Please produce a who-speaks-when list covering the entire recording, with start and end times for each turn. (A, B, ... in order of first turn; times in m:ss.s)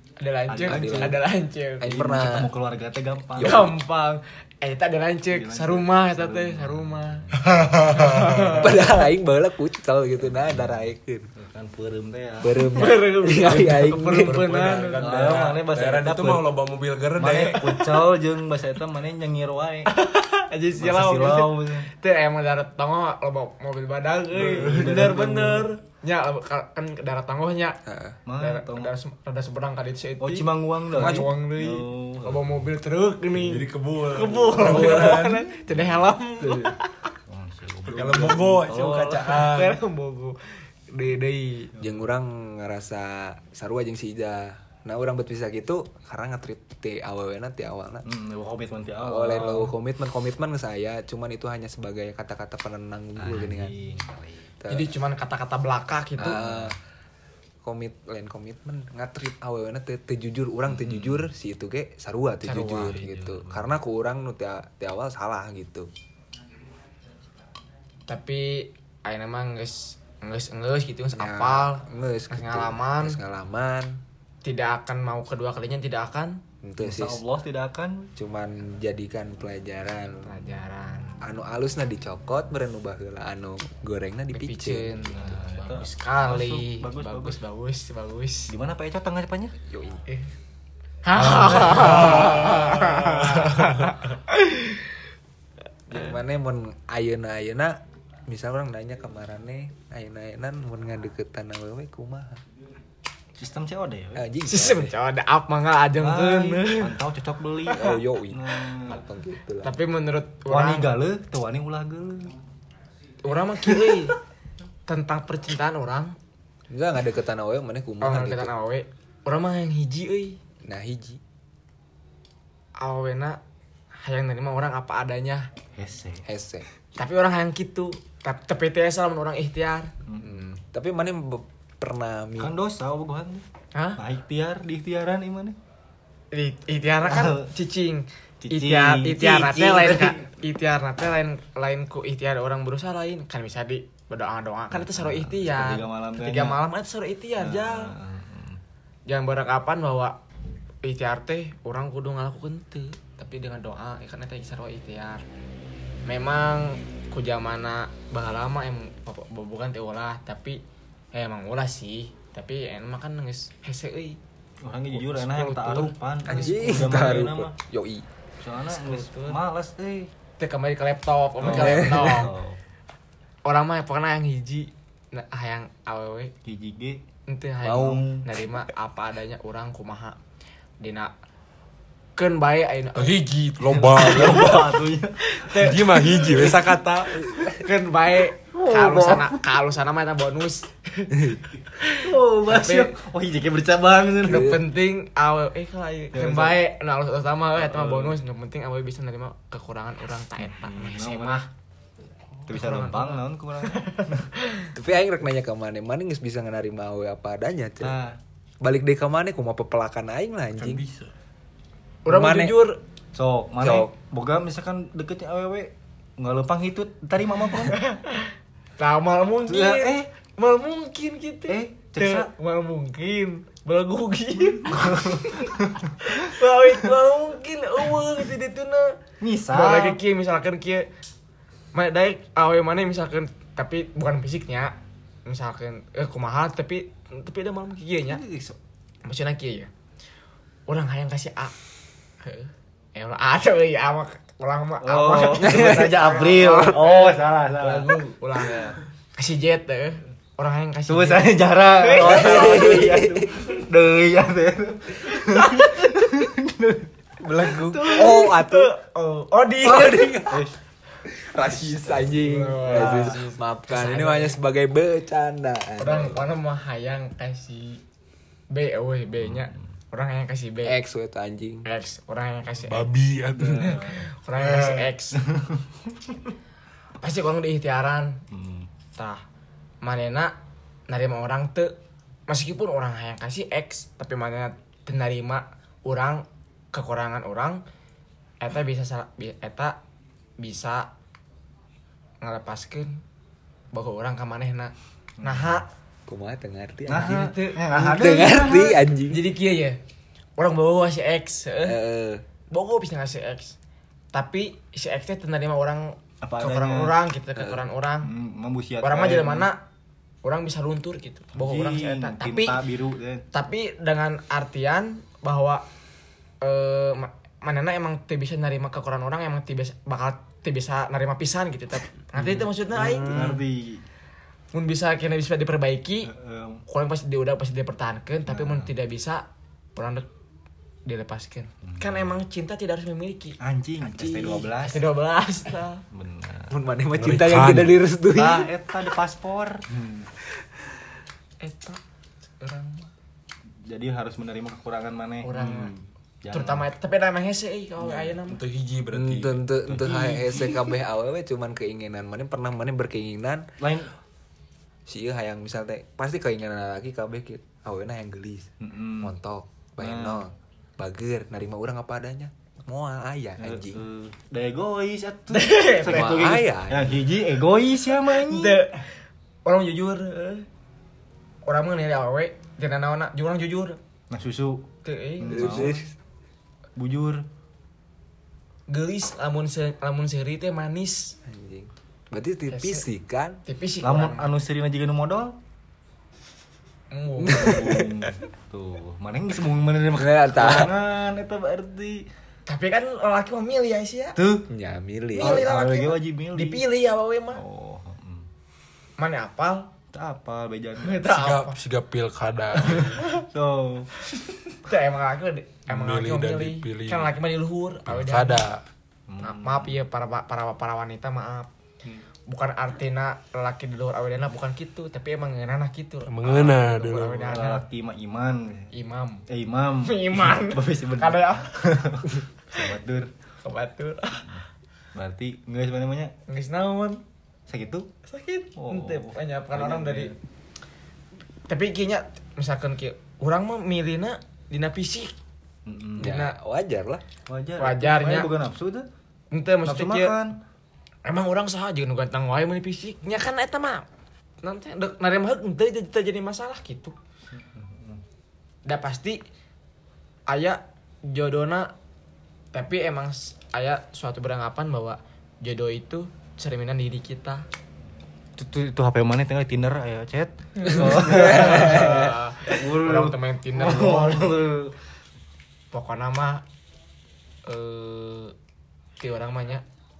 0:00.2-0:01.8 A
0:00.5-0:01.2 B
0:00.7-0:01.2 C
0:01.8-0:02.5 C
0:01.8-0:03.7 B
0:03.3-0:03.7 C
0:03.4-0:09.0 A
0:05.3-0:07.8 B
0:08.1-0:08.4 D
0:08.6-0:11.3 C
0:10.3-0:10.8 B
0:11.4-0:12.6 B
0:12.4-0:14.5 C
0:12.7-0:15.4 A
0:14.2-0:17.8 D
0:15.0-0:16.5 B
0:17.2-0:19.9 B
0:17.6-0:17.9 A
0:19.9-0:27.8 A
0:20.8-0:21.9 B
0:24.3-0:25.7 B
0:27.8-0:28.2 C
0:28.3-0:29.0 B
0:28.4-0:37.1 A
0:30.2-0:32.7 B
0:30.9-0:31.3 C
0:33.3-0:35.5 D
0:35.7-0:36.0 B
0:36.4-0:36.7 D
0:37.3-0:39.5 B
0:37.8-0:39.8 D
0:37.9-0:41.7 A
0:41.8-0:48.1 C
0:48.1-0:49.7 B
0:49.0-0:53.7 C
0:53.2-0:54.5 B
0:54.6-0:54.9 C
0:54.7-0:56.4 A
0:56.2-0:56.8 C
0:56.2-0:56.7 B
0:57.6-1:05.9 C
1:00.7-1:01.3 B
1:02.4-1:03.0 A
1:02.6-1:03.7 B
1:08.1-1:13.2 A
1:11.1-1:14.0 C
1:14.4-1:16.4 A
1:16.6-1:17.2 C
1:16.8-1:18.1 B
1:18.2-1:20.4 C
1:20.2-1:21.2 A
1:21.2-1:25.1 C
1:24.3-1:28.5 A
1:25.1-1:27.4 B
1:28.5-1:29.5 B
1:29.7-1:30.0 C
1:31.0-1:34.9 A
1:31.2-1:32.3 B
1:32.1-1:33.7 D
1:35.9-1:42.4 C
1:43.4-1:44.3 B
1:44.2-1:44.9 C
1:44.5-1:47.0 A
1:46.0-1:49.0 B
1:47.8-1:49.7 C
1:49.6-1:50.9 A
1:50.5-1:52.4 B
1:53.2-1:54.2 A
1:53.7-1:54.1 B
1:54.9-1:56.2 A
1:56.7-1:58.5 C
1:58.0-2:00.4 A
2:00.6-2:01.2 C
2:02.8-2:03.4 A
2:04.0-2:05.5 A
2:05.8-2:06.2 B
2:06.2-2:06.7 C
2:07.0-2:09.9 A
2:10.0-2:10.4 B
2:10.2-2:12.5 C
2:12.4-2:13.4 B
2:13.8-2:14.0 A
2:14.0-2:15.6 B
2:16.3-2:27.9 A
2:17.0-2:17.5 B
2:18.4-2:20.3 B
2:24.7-2:26.6 B
2:27.4-2:28.6 B
2:29.1-2:30.2 A
2:30.8-2:35.2 A
2:36.1-2:40.6 A
2:41.1-2:44.2 A
2:44.6-2:47.5 B
2:44.9-2:46.6 A
2:46.3-2:48.1 C
2:48.4-2:50.1 B
2:48.7-2:49.4 A
2:50.4-2:52.3 A
2:51.4-2:52.6 B
2:51.4-2:52.3 C
2:53.4-2:56.3 A
2:56.4-2:57.0 B
2:57.3-3:00.2 A
2:57.6-2:58.0 C
2:57.7-2:58.2 B
3:00.8-3:01.1 A
3:02.2-3:06.8 A
3:03.0-3:04.7 D
3:03.7-3:06.7 B
3:05.5-3:07.5 D
3:07.5-3:13.0 A
3:08.5-3:09.4 B
3:11.8-3:14.6 B
3:14.3-3:21.5 A
3:14.3-3:14.6 C
3:16.1-3:16.6 B
3:17.6-3:18.2 B
3:20.4-3:21.4 B
3:22.5-3:24.3 B
3:22.5-3:24.7 A
3:24.7-3:28.0 C
3:27.8-3:28.2 B
3:28.6-3:30.8 C
3:30.6-3:31.1 D
3:32.1-3:32.8 A
3:32.1-3:32.6 C
3:33.1-3:37.8 B
3:33.6-3:33.9 C
3:37.7-3:50.9 A
3:39.5-3:40.1 B
3:41.5-3:42.3 B
3:44.7-3:45.9 B
3:49.2-3:50.0 B
3:51.7-3:54.7 A
3:55.2-3:58.2 A
3:58.1-3:58.4 B
3:59.0-3:59.7 A
4:00.7-4:01.6 A
4:02.2-4:13.0 A
4:04.8-4:08.6 B
4:05.4-4:05.8 C
4:10.9-4:16.9 B
4:12.0-4:13.3 C
4:15.3-4:16.1 A
4:17.2-4:18.7 C
4:17.7-4:20.2 A
4:17.8-4:18.1 B
4:19.6-4:20.5 C
4:20.3-4:20.6 B
4:21.0-4:26.3 C
4:21.9-4:24.4 A
4:25.8-4:27.8 A
4:28.5-4:30.8 A
4:29.2-4:29.7 B
4:30.6-4:31.7 C
4:31.6-4:35.2 A
4:32.7-4:34.9 D
4:33.5-4:33.9 B
4:35.2-4:35.6 B
4:37.0-4:38.2 A
4:38.3-4:38.7 B
4:39.0-4:39.2 A
4:39.8-4:40.3 A
4:40.9-4:41.7 A
4:42.3-4:47.6 A
4:48.4-4:49.8 A
4:50.4-4:50.9 A
4:52.2-4:53.0 A
4:53.7-4:55.7 A
4:55.2-4:55.6 B
4:56.1-4:59.2 C
4:56.9-4:58.8 B
4:57.0-4:57.6 A
4:59.1-4:59.8 A
5:00.4-5:01.8 A
5:01.6-5:02.2 C
5:02.5-5:03.6 A
5:04.1-5:08.1 A
5:06.2-5:07.0 B
5:07.4-5:07.6 C
5:08.0-5:09.5 B
5:08.8-5:09.6 A
5:10.2-5:12.6 A
5:11.3-5:13.2 B
5:13.3-5:15.6 A
5:16.4-5:23.4 A
5:22.2-5:23.8 B
5:24.5-5:26.1 A
5:26.1-5:26.6 B
5:26.7-5:30.1 A
5:28.3-5:28.7 B
5:30.9-5:35.8 A
5:31.6-5:32.2 B
5:33.4-5:34.8 B
5:35.9-5:36.6 B
5:36.5-5:38.5 C
5:37.0-5:37.8 D
5:38.2-5:40.1 B
5:41.4-5:41.8 A
5:42.4-5:42.9 A
5:43.6-5:46.7 B
5:45.2-5:45.7 A
5:46.3-5:48.4 A
5:48.2-5:49.4 D
5:48.9-5:53.5 C
5:49.7-5:50.7 B
5:53.6-5:53.9 B
5:54.9-5:58.5 C
5:58.6-5:59.2 B
5:59.0-6:03.8 C
5:59.8-6:00.2 B
6:03.4-6:08.6 B
6:05.3-6:06.2 A
6:05.9-6:07.0 C
6:08.0-6:08.9 A
6:09.4-6:10.5 A
6:11.4-6:13.8 A
6:14.1-6:14.7 B
6:14.8-6:15.8 A
6:15.2-6:15.8 B
6:15.3-6:15.9 C
6:16.8-6:17.2 B
6:18.7-6:21.2 A
6:21.2-6:23.4 C
6:22.5-6:22.8 A
6:23.5-6:24.3 A
6:23.8-6:25.4 B
6:26.9-6:27.8 A
6:27.3-6:27.9 C
6:27.3-6:32.1 B
6:29.9-6:30.7 C
6:32.5-6:34.2 A
6:34.2-6:34.5 B
6:34.5-6:35.5 C
6:35.2-6:37.4 A
6:35.2-6:36.6 B
6:37.3-6:38.3 B
6:39.0-6:39.7 A
6:39.9-6:41.0 B
6:40.8-6:41.6 A
6:41.1-6:43.0 D
6:42.6-6:43.2 A
6:42.7-6:43.9 B
6:44.1-6:48.4 A
6:45.7-6:47.1 D
6:47.9-6:48.6 D
6:49.1-6:49.8 B
6:49.2-6:51.5 A
6:52.3-6:57.6 A
6:56.1-6:57.4 D
6:57.3-6:58.7 B
6:58.7-6:59.2 A
6:59.3-7:03.1 B
6:59.8-7:02.2 A
7:03.4-7:04.3 A
7:04.9-7:06.1 B
7:06.3-7:07.0 A
7:07.5-7:07.9 B
7:08.1-7:10.1 A
7:08.6-7:10.2 B
7:11.5-7:15.1 A
7:15.7-7:16.2 B
7:16.0-7:17.0 C
7:16.0-7:16.3 A
7:17.3-7:18.9 B
7:17.6-7:18.3 A
7:19.3-7:20.2 A
7:19.6-7:20.4 B
7:21.0-7:23.9 A
7:24.4-7:27.0 A
7:27.3-7:28.0 B
7:28.7-7:29.2 A
7:30.3-7:31.7 A
7:32.5-7:37.5 A
7:38.4-7:44.8 B
7:40.6-7:44.4 A
7:40.7-7:42.1 C
7:45.7-7:46.4 A
7:47.5-7:48.3 A
7:49.0-7:49.6 A